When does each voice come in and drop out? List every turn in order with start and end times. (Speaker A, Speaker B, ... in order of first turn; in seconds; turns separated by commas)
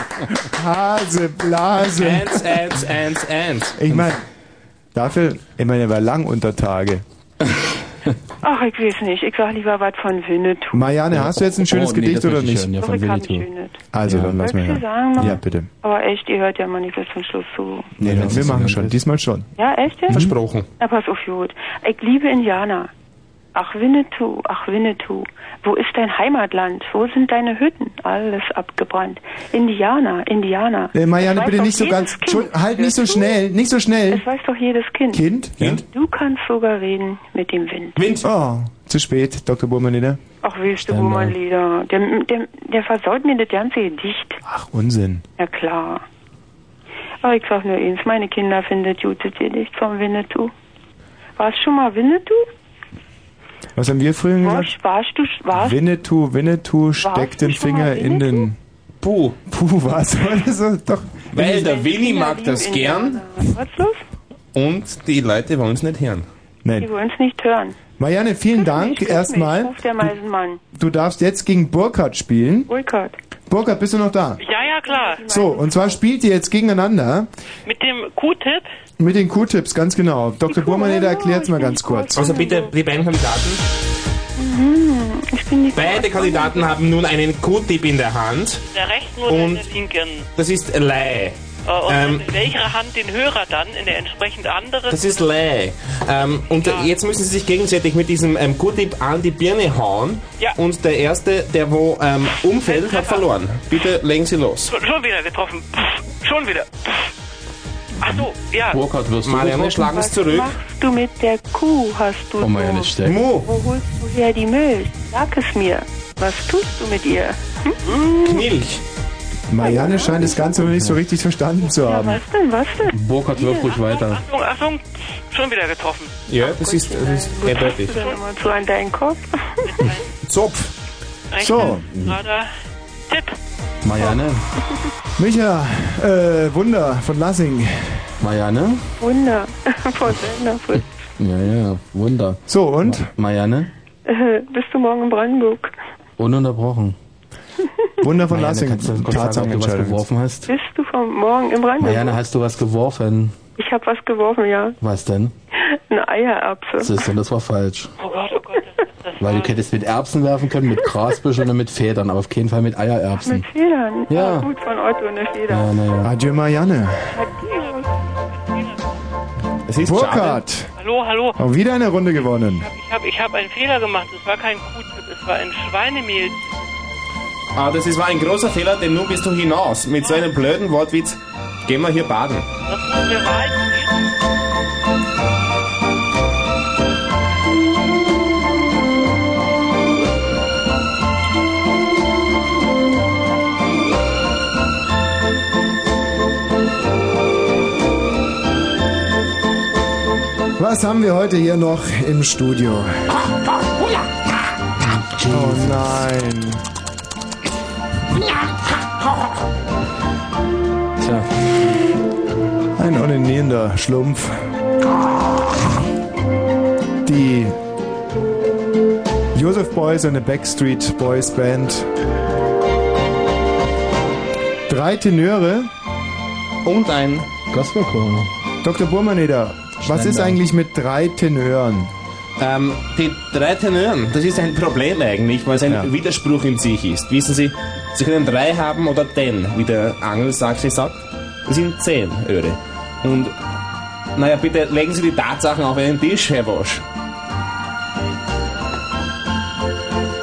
Speaker A: 0.5-2.4, Speaker B: 2.0-3.8, Speaker A: 3.8-4.2, Speaker A: 4.9-7.0, Speaker C: 8.4-10.9, Speaker A: 10.7-12.7, Speaker D: 11.1-13.5, Speaker C: 12.8-17.9, Speaker A: 13.9-15.7, Speaker D: 14.1-14.4, Speaker D: 18.0-18.9, Speaker A: 18.0-19.5, Speaker C: 19.6-22.9, Speaker B: 20.1-20.7, Speaker C: 23.5-33.4, Speaker A: 30.9-34.2, Speaker C: 34.1-35.3, Speaker A: 35.1-35.8, Speaker C: 35.9-38.0, Speaker B: 38.0-38.3, Speaker A: 38.2-40.2, Speaker C: 40.4-44.4, Speaker D: 40.8-41.4, Speaker A: 44.5-45.2, Speaker C: 45.4-46.0, Speaker C: 47.2-50.5, Speaker C: 51.4-52.5, Speaker A: 53.8-54.7, Speaker C: 54.4-55.8, Speaker A: 55.5-58.6, Speaker C: 57.0-58.5, Speaker B: 59.0-59.4, Speaker A: 59.5-61.7, Speaker B: 61.3-63.3, Speaker C: 61.5-64.0, Speaker B: 64.5-66.3, Speaker C: 66.8-67.8, Speaker A: 68.0-70.1, Speaker C: 68.5-70.6, Speaker A: 70.7-72.7, Speaker C: 72.7-73.2, Speaker A: 73.5-74.4, Speaker E: 74.4-75.3, Speaker C: 74.7-76.0, Speaker A: 75.3-77.3, Speaker E: 77.7-78.7, Speaker A: 79.0-82.2, Speaker C: 80.5-82.8, Speaker B: 82.1-83.6, Speaker C: 84.4-86.8, Speaker B: 85.7-88.6, Speaker E: 88.6-90.3, Speaker B: 89.3-89.7, Speaker B: 90.4-92.4, Speaker E: 91.7-95.2, Speaker B: 94.9-104.7, Speaker E: 96.6-96.9, Speaker E: 102.6-103.3, Speaker E: 104.7-107.1, Speaker E: 108.0-108.8, Speaker D: 108.1-109.8, Speaker B: 109.2-110.6, Speaker C: 109.7-117.8, Speaker D: 112.4-113.2, Speaker B: 113.0-113.5, Speaker B: 118.1-118.8, Speaker A: 119.5-122.2, Speaker C: 119.6-120.5, Speaker D: 120.6-121.0, Speaker C: 121.7-123.7, Speaker D: 122.9-124.2, Speaker E: 123.7-126.2, Speaker B: 126.3-128.0, Speaker C: 126.4-129.8, Speaker E: 127.9-128.6, Speaker E: 129.7-130.1, Speaker B: 130.2-130.7, Speaker E: 131.3-132.5, Speaker A: 131.4-131.8, Speaker D: 131.9-132.2, Speaker E: 133.1-133.4, Speaker D: 133.8-134.4, Speaker A: 135.2-138.1, Speaker D: 138.2-138.8, Speaker C: 139.0-140.9, Speaker D: 141.2-143.7, Speaker A: 142.5-143.1, Speaker C: 144.1-145.7, Speaker D: 146.2-147.0, Speaker A: 148.0-150.0, Speaker D: 148.3-150.5, Speaker C: 150.5-152.2, Speaker D: 151.8-153.3, Speaker C: 153.6-154.8, Speaker D: 154.8-155.3, Speaker C: 155.5-157.1, Speaker D: 156.8-157.9, Speaker E: 158.0-159.5, Speaker D: 159.2-163.5, Speaker C: 163.2-165.8, Speaker D: 164.1-164.5, Speaker D: 165.5-166.1, Speaker A: 166.0-167.2, Speaker C: 167.1-167.9, Speaker E: 167.4-169.0, Speaker B: 169.7-170.4, Speaker A: 169.8-170.7, Speaker E: 170.8-171.4, Speaker A: 171.4-172.7, Speaker E: 172.6-176.5, Speaker B: 177.6-182.5, Speaker E: 180.0-180.3, Speaker E: 182.7-184.0, Speaker A: 200.6-203.1, Speaker D: 204.8-206.0, Speaker A: 205.3-206.7, Speaker D: 211.0-211.3, Speaker A: 212.8-214.5, Speaker A: 217.0-217.6, Speaker A: 219.3-221.9, Speaker A: 224.7-225.7, Speaker B: 226.6-227.3, Speaker D: 227.5-228.3, Speaker A: 228.6-231.9, Speaker D: 229.8-230.4, Speaker B: 232.4-243.4, Speaker B: 244.2-246.8